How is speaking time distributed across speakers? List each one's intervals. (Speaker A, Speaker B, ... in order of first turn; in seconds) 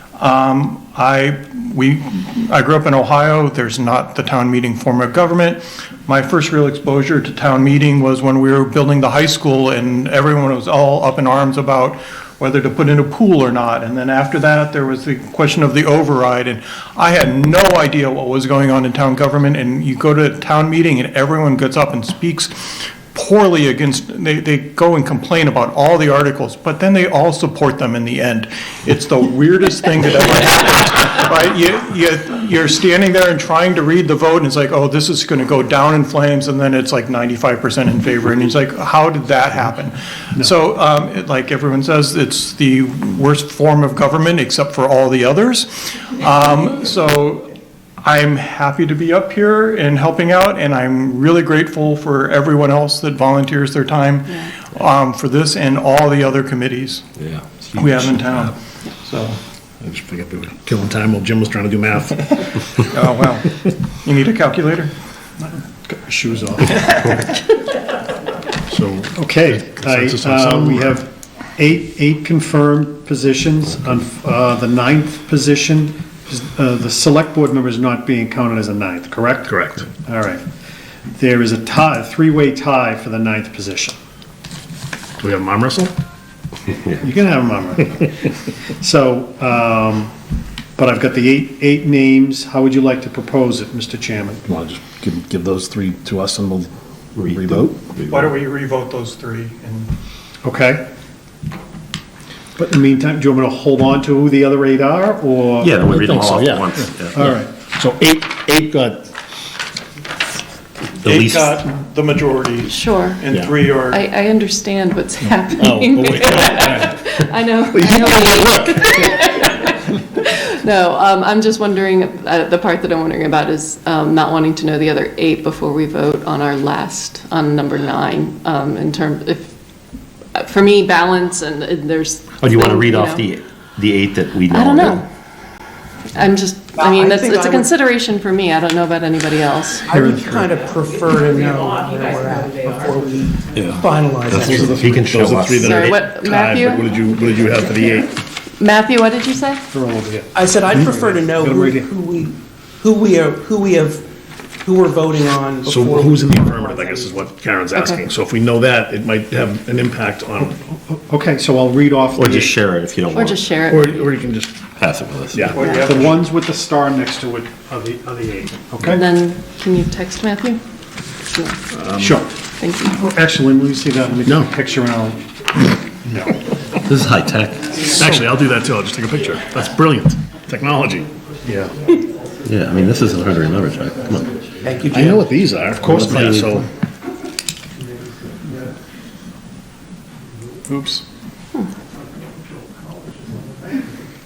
Speaker A: 0.2-47.5, 48.0-57.1, 57.7-59.4, 62.8-64.9, 98.1-99.9, 111.0-114.0, 165.5-166.2
Speaker B: 57.2-58.5, 97.2-98.3, 105.6-107.2, 111.0-111.6, 132.4-135.0, 143.5-145.9, 162.2-163.8, 164.8-165.8, 176.8-177.8, 182.4-184.3, 185.8-186.6
Speaker C: 59.8-62.3, 68.7-71.0, 79.5-79.9, 85.2-85.9, 94.4-97.8, 105.8-109.1, 115.5-117.0, 117.7-119.2, 144.7-148.1, 155.6-160.5, 163.6-164.6, 165.3-165.6, 171.7-172.2, 174.2-174.5, 178.0-181.7, 184.9-186.7, 190.7-191.0
Speaker D: 65.9-67.2, 69.2-80.4, 81.1-84.0, 87.0-88.1, 88.8-90.1, 90.8-94.4, 100.4-100.8, 102.6-105.8, 107.1-107.5, 139.9-140.5, 149.7-151.9, 160.6-162.5, 165.6-169.0, 172.0-172.3, 173.0-175.2, 176.0-176.4, 178.0-178.2, 185.8-186.3
Speaker E: 112.7-113.2, 113.9-129.5, 130.3-133.3, 134.5-135.1, 136.1-139.9, 145.6-146.9, 148.6-149.6, 163.1-163.9, 165.6-166.0, 168.8-170.6, 171.2-171.6, 172.6-173.0
Speaker F: 136.8-137.7, 139.9-145.0, 150.3-154.0, 154.6-156.7, 184.6-185.3